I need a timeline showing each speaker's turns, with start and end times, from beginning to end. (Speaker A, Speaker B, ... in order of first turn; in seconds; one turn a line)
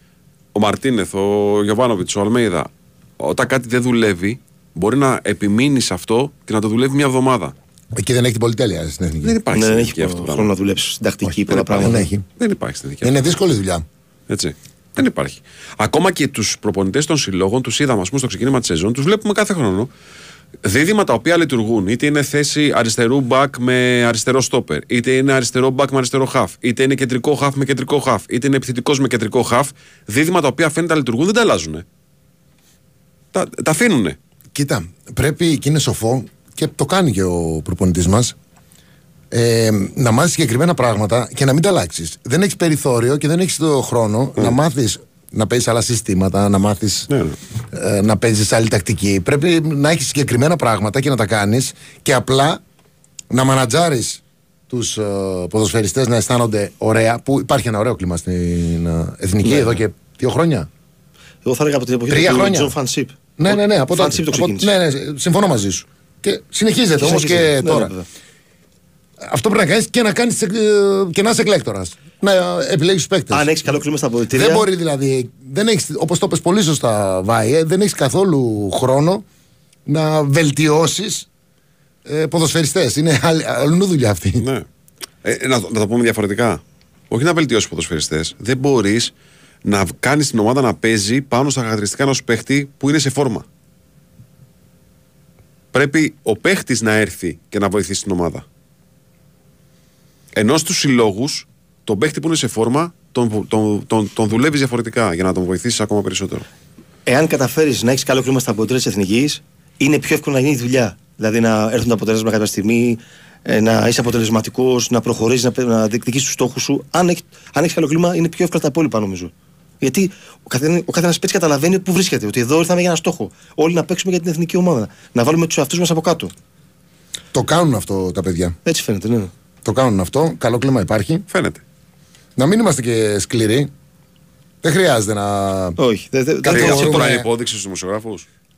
Speaker A: 0.5-7.5
Speaker B: 8.0-9.4
Speaker A: 9.2-10.5
Speaker C: 9.5-12.1
Speaker B: 11.2-12.2
Speaker A: 11.5-13.3
Speaker B: 13.0-13.8
Speaker A: 14.3-19.9
Speaker A: 20.6-31.8
Speaker A: 33.3-34.2
Speaker B: 34.5-38.3
Speaker B: 39.3-47.1
Speaker A: 47.1-47.4
Speaker B: 47.7-52.6
Speaker B: 53.3-60.7
Speaker C: 59.4-59.8
Speaker C: 61.4-64.7
Speaker B: 62.1-62.7
Speaker B: 63.4-67.9
Speaker C: 67.0-68.0
Speaker B: 69.2-73.5
Speaker C: 73.3-74.7
Speaker B: 74.3-79.2
Speaker B: 79.9-81.3
Speaker B: 82.0-84.5
Speaker A: 84.4-84.7
Speaker A: 85.2-89.1
Speaker A: 89.6-93.5
Speaker A: 95.7-98.4
Speaker A: 100.3-106.4
Speaker C: 107.0-126.3
Speaker B: 127.3-128.6
Speaker C: 128.6-129.3
Speaker B: 129.6-131.2
Speaker A: 131.3-131.6
Speaker B: 132.4-133.7
Speaker B: 134.6-135.8
Speaker C: 135.8-137.0
Speaker B: 136.4-137.3
Speaker A: 136.5-138.2